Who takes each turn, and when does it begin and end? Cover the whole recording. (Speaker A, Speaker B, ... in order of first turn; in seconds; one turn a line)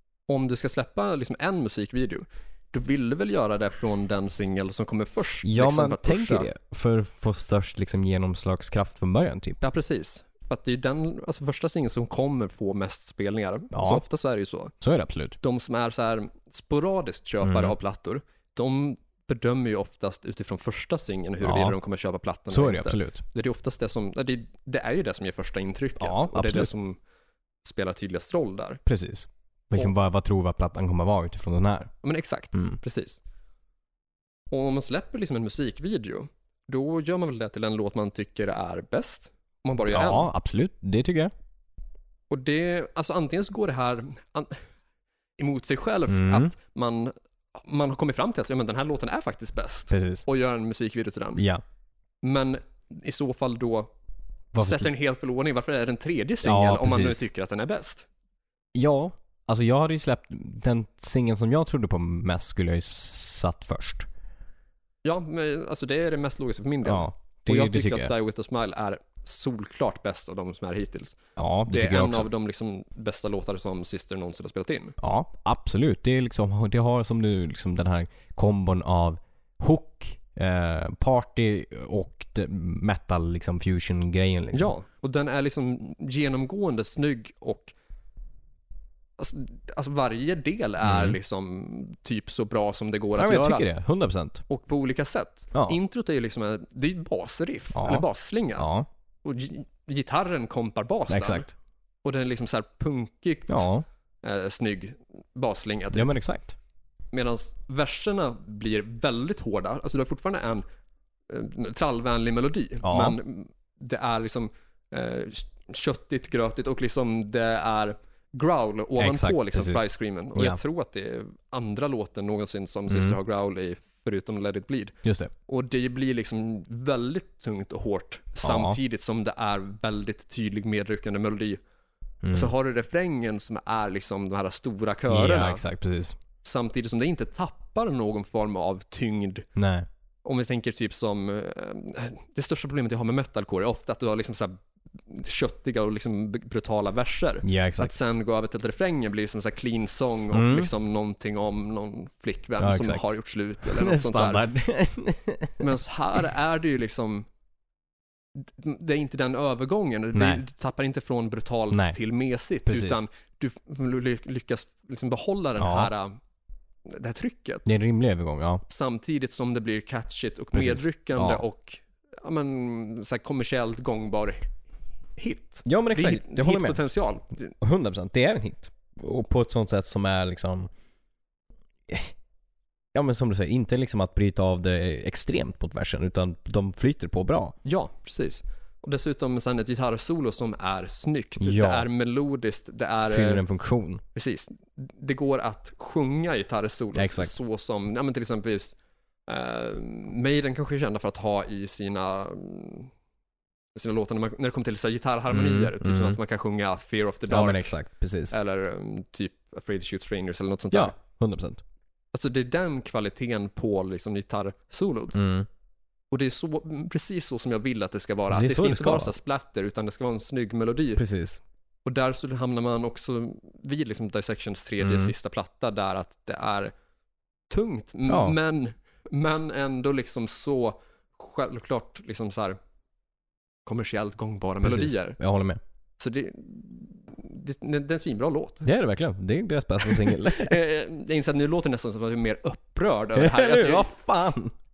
Speaker A: 0.3-6.5
Speaker B: 5.4-9.6
Speaker A: 9.6-14.7
Speaker B: 13.7-14.0
Speaker B: 14.8-15.4
Speaker A: 15.4-27.0
Speaker B: 17.4-17.7
Speaker B: 21.4-21.8
Speaker B: 22.5-23.2
Speaker B: 26.0-26.7
Speaker A: 27.6-28.8
Speaker B: 28.9-31.9
Speaker A: 32.0-33.2
Speaker A: 34.5-40.3
Speaker B: 39.9-41.3
Speaker A: 42.3-44.6
Speaker A: 45.4-51.4
Speaker B: 46.1-46.5
Speaker B: 49.9-50.2
Speaker B: 51.4-51.6
Speaker A: 52.2-53.9
Speaker B: 54.5-54.9
Speaker A: 54.6-58.1
Speaker B: 56.4-57.2
Speaker B: 58.7-64.1
Speaker A: 65.0-75.0
Speaker B: 66.8-68.1
Speaker B: 71.4-72.3
Speaker B: 75.0-84.7
Speaker A: 84.5-87.7
Speaker A: 89.2-93.7
Speaker B: 90.8-91.2
Speaker B: 93.2-94.4
Speaker A: 94.5-98.7
Speaker B: 97.7-98.0
Speaker B: 98.6-98.9
Speaker A: 99.2-101.5
Speaker B: 101.1-101.5
Speaker A: 102.0-103.7
Speaker B: 103.5-103.8
Speaker A: 104.2-106.2
Speaker B: 105.9-106.5
Speaker A: 107.1-110.6
Speaker A: 111.3-125.0
Speaker B: 112.8-113.2
Speaker B: 119.0-120.6
Speaker B: 122.9-123.2
Speaker B: 125.0-125.3
Speaker A: 125.5-131.6
Speaker B: 128.4-128.8
Speaker B: 132.2-132.5
Speaker A: 132.3-135.6
Speaker B: 135.1-136.2
Speaker A: 136.4-139.5
Speaker B: 139.6-139.9
Speaker A: 140.2-154.4
Speaker B: 147.4-147.9
Speaker B: 150.3-150.7
Speaker B: 152.6-153.0
Speaker B: 153.6-155.7
Speaker A: 155.6-157.3
Speaker A: 158.4-166.2
Speaker B: 160.1-160.4
Speaker B: 161.7-162.0
Speaker B: 162.7-163.0
Speaker B: 165.6-165.9
Speaker A: 166.9-167.7
Speaker B: 167.7-168.6
Speaker A: 168.7-174.4
Speaker B: 170.5-171.4
Speaker A: 175.2-177.5
Speaker B: 175.7-176.8
Speaker B: 177.6-180.7
Speaker B: 182.9-187.6
Speaker A: 187.6-193.4
Speaker B: 191.4-191.8
Speaker B: 193.1-194.0
Speaker A: 194.1-198.8
Speaker B: 196.9-197.3
Speaker A: 199.3-202.9
Speaker A: 203.7-207.7
Speaker B: 205.3-206.2
Speaker B: 207.3-208.3
Speaker A: 208.3-210.9
Speaker B: 210.7-211.6
Speaker A: 212.1-215.2
Speaker B: 215.1-215.5
Speaker A: 216.1-221.0
Speaker B: 218.3-219.1
Speaker B: 221.0-221.4
Speaker A: 221.8-226.7
Speaker B: 224.8-225.1
Speaker A: 227.5-232.6
Speaker B: 228.1-228.4
Speaker A: 233.7-235.2
Speaker B: 234.6-235.6
Speaker A: 236.0-238.7
Speaker B: 238.6-240.6
Speaker A: 239.8-243.9
Speaker B: 243.2-244.5